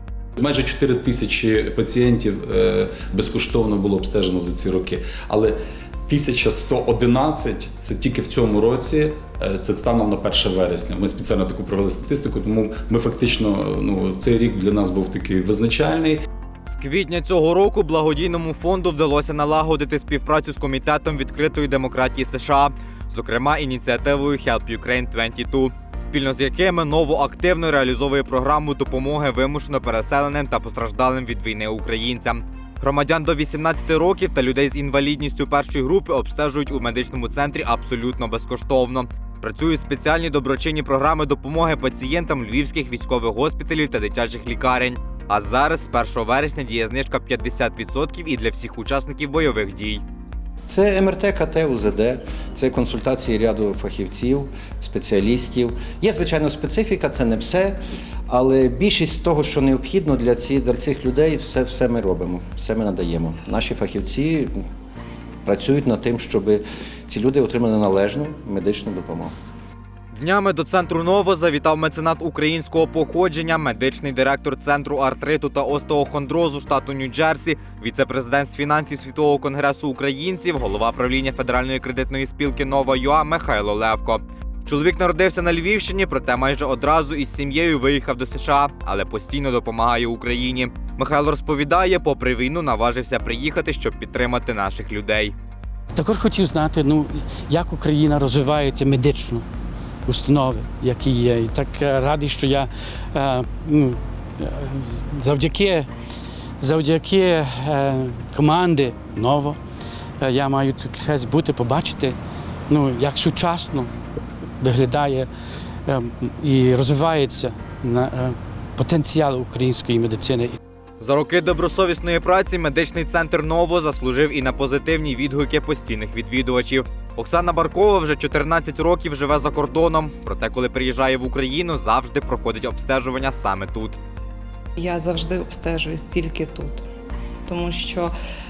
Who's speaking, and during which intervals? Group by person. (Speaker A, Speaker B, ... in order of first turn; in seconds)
Speaker A: 0.4-5.5, 6.1-16.2
Speaker B: 16.6-50.0, 70.1-95.3, 121.0-134.0
Speaker C: 50.7-64.5, 65.5-69.3
Speaker D: 95.9-99.4, 100.0-105.9, 106.6-109.6, 110.2-112.2, 112.7-113.9, 114.6-115.3, 115.8-120.6
Speaker E: 134.8-136.8, 137.4-138.1